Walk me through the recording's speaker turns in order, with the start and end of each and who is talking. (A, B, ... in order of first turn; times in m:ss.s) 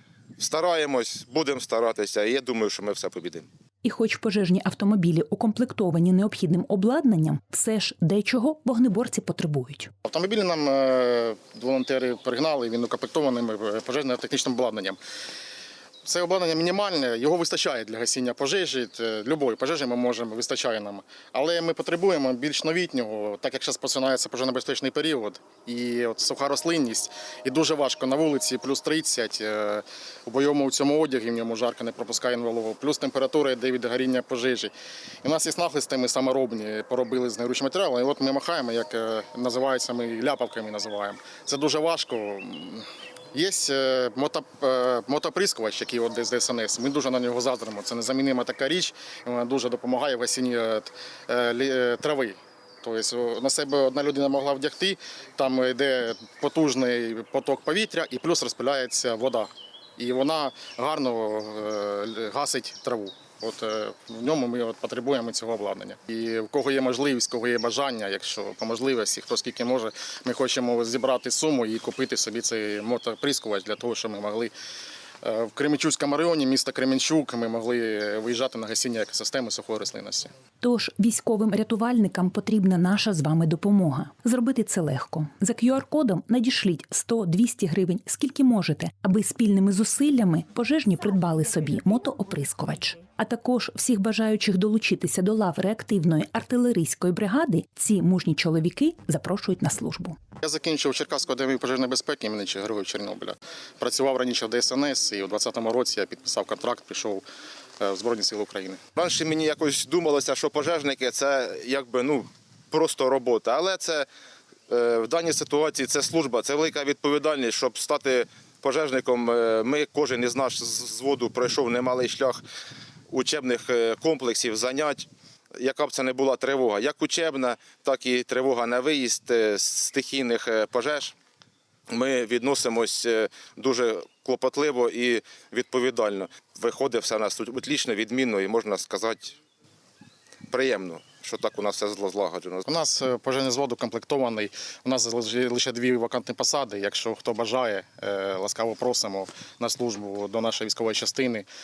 0:00.4-0:03.5 A
0:03.8-0:09.9 B
0:10.0-0:15.0 C
0:16.0-1:14.5 C
1:15.2-1:20.3 C
1:20.6-1:40.2 B
1:40.4-1:47.2 C
1:47.8-1:48.8 C
1:49.0-1:54.1 A
1:54.7-2:02.4 A
2:03.1-2:11.1 A
2:11.9-2:19.4 A
2:20.5-2:22.6 A
2:22.7-2:31.5 C